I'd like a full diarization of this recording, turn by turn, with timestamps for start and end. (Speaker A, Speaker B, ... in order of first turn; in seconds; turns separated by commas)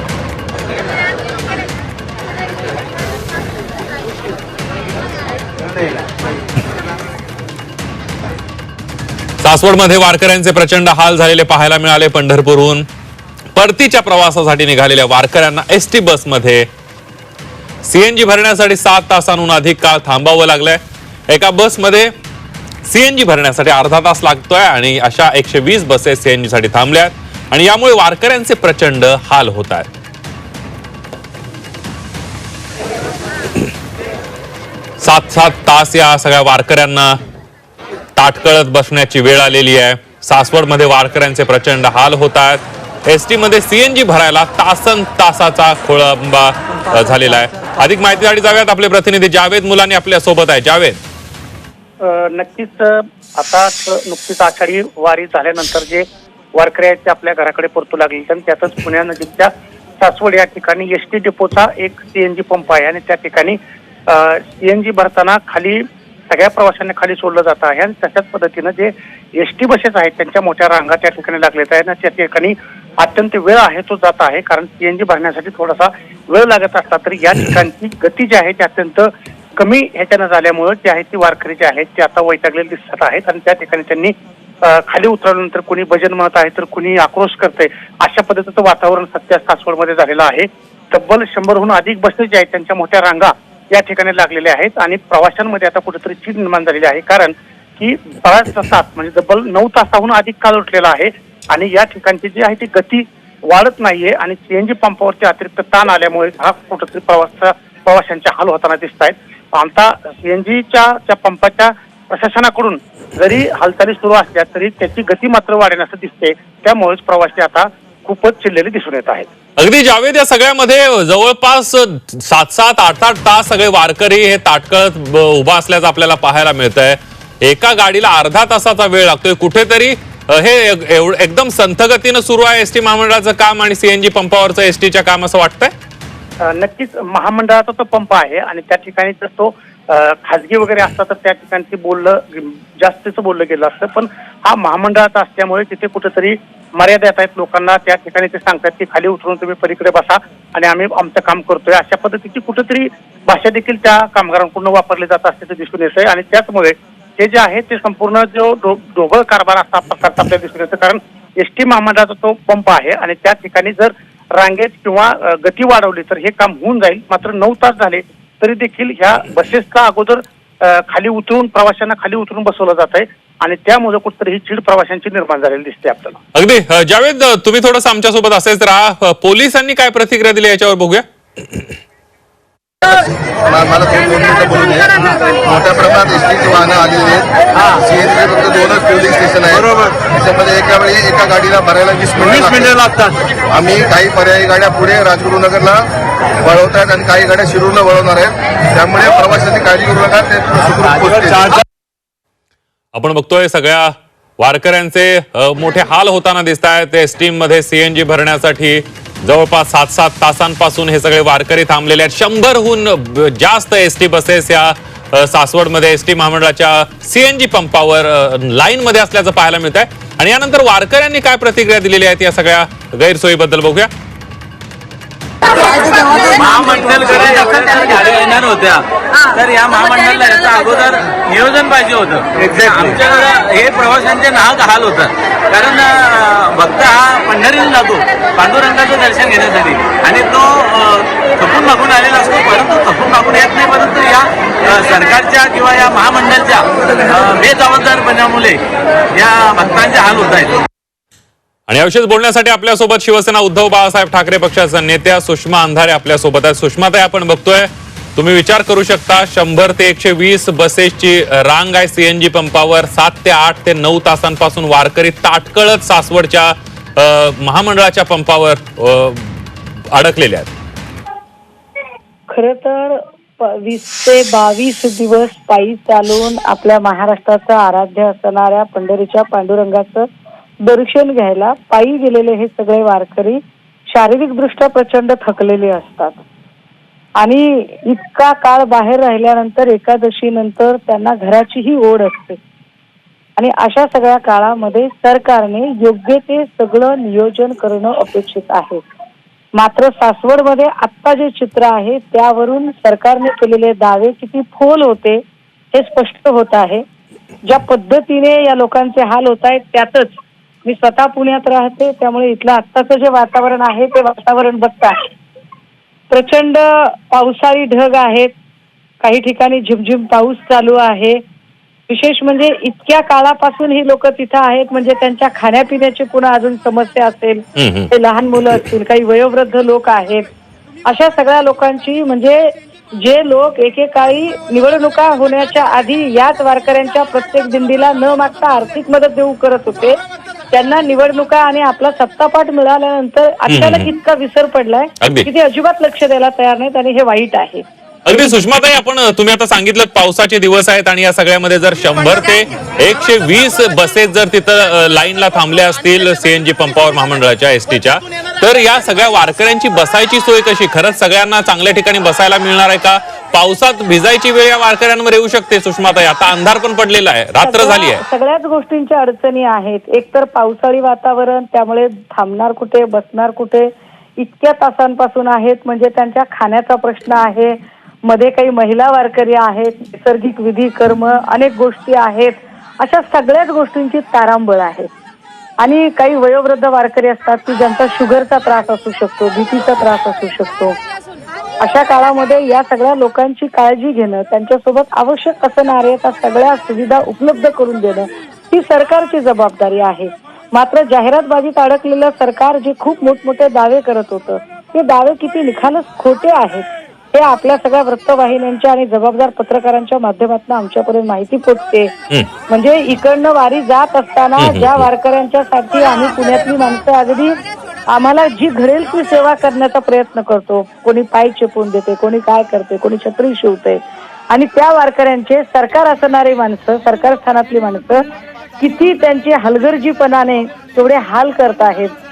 Speaker A: 9.4-12.9, Speaker A: 13.6-16.7, Speaker A: 17.9-22.1, Speaker A: 22.9-29.9, Speaker A: 35.0-37.2, Speaker A: 38.2-51.0, Speaker B: 52.0-56.1, Speaker B: 56.6-84.1, Speaker B: 84.6-119.3, Speaker A: 119.6-135.7, Speaker B: 136.5-176.2, Speaker A: 176.3-181.0, Speaker C: 182.8-192.9, Speaker C: 193.5-195.9, Speaker C: 196.4-201.5, Speaker A: 202.9-223.9, Speaker D: 226.0-248.6, Speaker D: 249.2-250.6, Speaker A: 251.7-270.5, Speaker E: 272.3-280.1, Speaker E: 280.6-286.2, Speaker E: 287.2-292.4, Speaker E: 293.4-298.8, Speaker E: 299.6-305.2, Speaker E: 305.7-306.8, Speaker E: 307.5-315.0, Speaker E: 316.1-318.3, Speaker E: 319.0-321.2, Speaker E: 321.9-330.3, Speaker A: 327.6-327.9, Speaker E: 330.9-340.0, Speaker E: 340.5-347.6, Speaker A: 343.5-343.9, Speaker A: 345.0-345.3, Speaker A: 348.1-368.0, Speaker E: 367.4-384.9, Speaker E: 385.6-390.8, Speaker E: 391.6-411.9, Speaker E: 412.5-417.4, Speaker A: 414.4-414.9, Speaker E: 417.9-428.0, Speaker E: 428.6-431.9